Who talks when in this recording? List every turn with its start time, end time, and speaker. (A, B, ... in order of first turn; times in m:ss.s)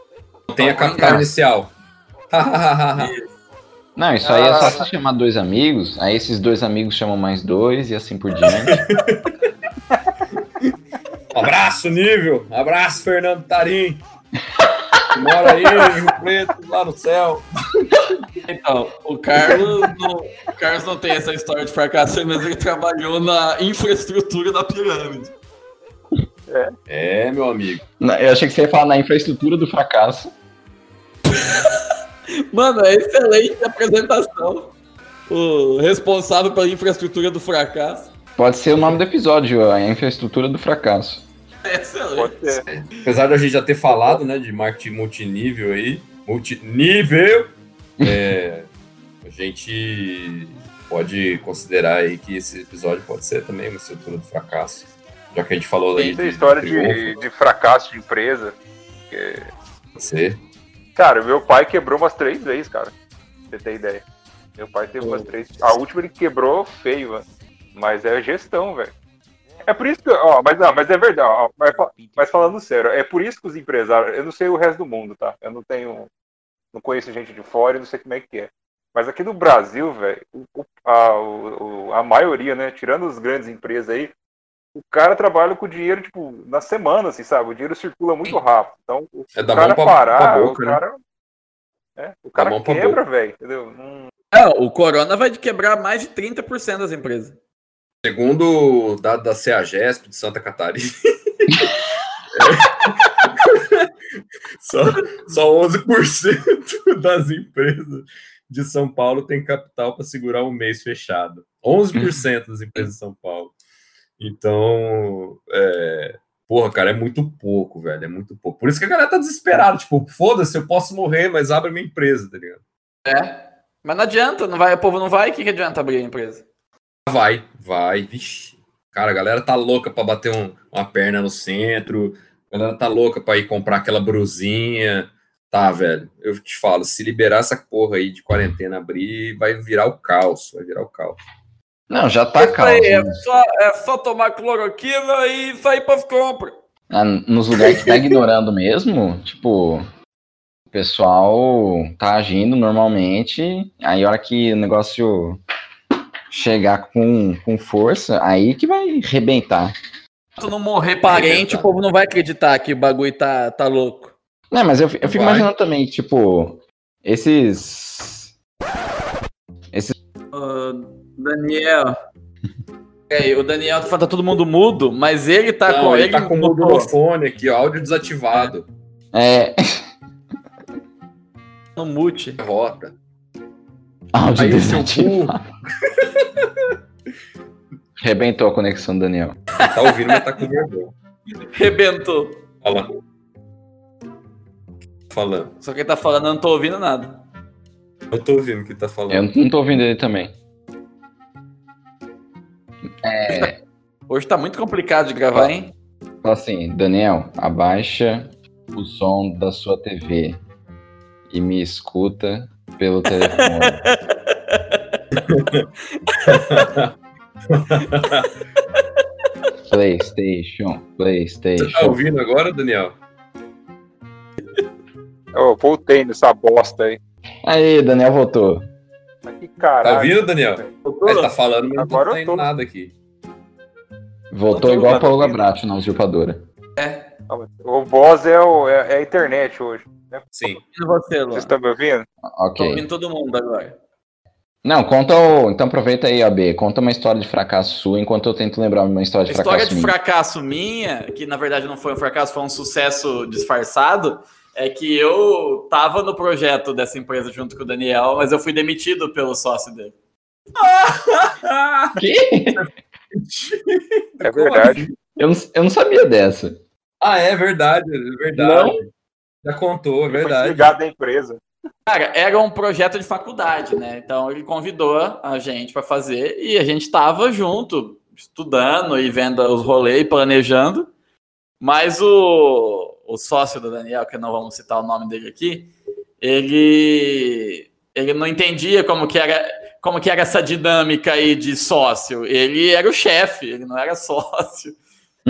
0:00.5-0:01.3 A
0:00.5-0:01.7 B
0:02.3-0:03.1 B
0:03.0-0:03.3 A
0:04.0-0:08.8 C
0:04.2-0:04.9 D
0:08.6-0:09.3 B
0:11.3-0:14.0 B
0:15.1-0:17.5 B
0:18.4-0:25.3 A
0:26.5-0:26.7 D
0:26.9-0:27.8 B
0:28.0-0:30.3 C
0:31.3-0:31.8 A
0:32.5-0:34.7 A
0:35.3-0:38.1 A
0:38.4-0:41.2 C
0:41.6-0:42.6 A
0:42.2-0:42.6 D
0:42.7-0:48.7 B
0:48.0-0:48.3 C
0:49.2-0:57.2 B
0:56.0-0:58.6 D
0:59.1-0:59.5 D
1:00.0-1:00.4 B
1:01.0-1:02.9 D
1:03.5-1:04.0 D
1:04.6-1:08.9 D
1:09.6-1:16.1 D
1:16.7-1:24.1 D
1:24.8-1:31.0 D
1:29.4-1:30.8 B
1:32.0-1:34.1 D
1:32.4-1:33.0 B
1:34.3-1:37.4 A
1:38.0-1:41.6 B
1:42.3-1:43.9 B
1:44.6-1:53.5 B
1:54.2-2:02.6 B
2:03.0-2:06.4 A
2:07.1-2:21.2 B
2:21.9-2:23.2 C
2:22.4-2:26.6 A
2:26.9-2:29.8 C
2:27.6-2:28.0 A
2:30.7-2:35.4 C
2:36.3-2:39.7 C
2:40.4-2:44.1 A
2:41.1-2:41.6 B
2:44.5-2:48.3 C
2:45.0-2:45.5 B
2:50.3-2:52.0 A
2:53.1-2:56.9 A
2:55.7-2:58.7 B
2:59.1-2:59.9 C
3:01.8-3:02.4 A
3:02.4-3:02.9 B
3:04.1-3:05.4 C
3:04.4-3:05.4 B
3:05.9-3:06.5 B
3:08.0-3:09.4 C
3:09.6-3:10.2 A
3:09.6-3:10.9 B
3:11.5-3:12.4 A
3:12.6-3:12.9 B
3:15.1-3:15.5 B
3:15.6-3:17.2 A
3:18.1-3:19.3 B
3:19.1-3:20.3 C
3:23.0-3:23.6 C
3:24.1-3:25.7 A
3:26.2-3:30.4 C
3:31.3-3:33.9 C
3:33.3-3:35.0 A
3:35.3-3:35.7 B
3:36.0-3:36.7 A
3:36.3-3:36.9 B
3:37.5-3:38.3 B
3:38.8-3:39.0 A
3:39.7-3:42.0 C
3:41.6-3:43.0 B
3:45.3-3:47.0 D
3:47.4-3:48.7 C
3:49.2-3:50.7 D
3:49.8-3:52.9 B
3:50.8-3:51.3 A
3:51.8-3:52.5 D
3:54.3-3:56.5 C
3:54.5-3:55.4 A
3:56.8-3:57.1 A
3:57.3-4:00.3 D
4:00.3-4:00.6 B
4:00.5-4:01.5 A
4:01.3-4:02.1 D
4:02.2-4:02.8 C
4:02.6-4:03.8 A
4:04.6-4:10.0 C
4:09.3-4:20.0 A
4:20.6-4:22.0 B
4:22.0-4:22.6 C
4:22.5-4:24.9 B
4:24.2-4:24.9 D
4:25.2-4:26.6 C
4:27.0-4:28.9 B
4:28.3-4:28.7 C
4:29.4-4:30.7 B
4:30.1-4:31.4 D
4:31.9-4:40.9 A
4:41.6-4:54.8 A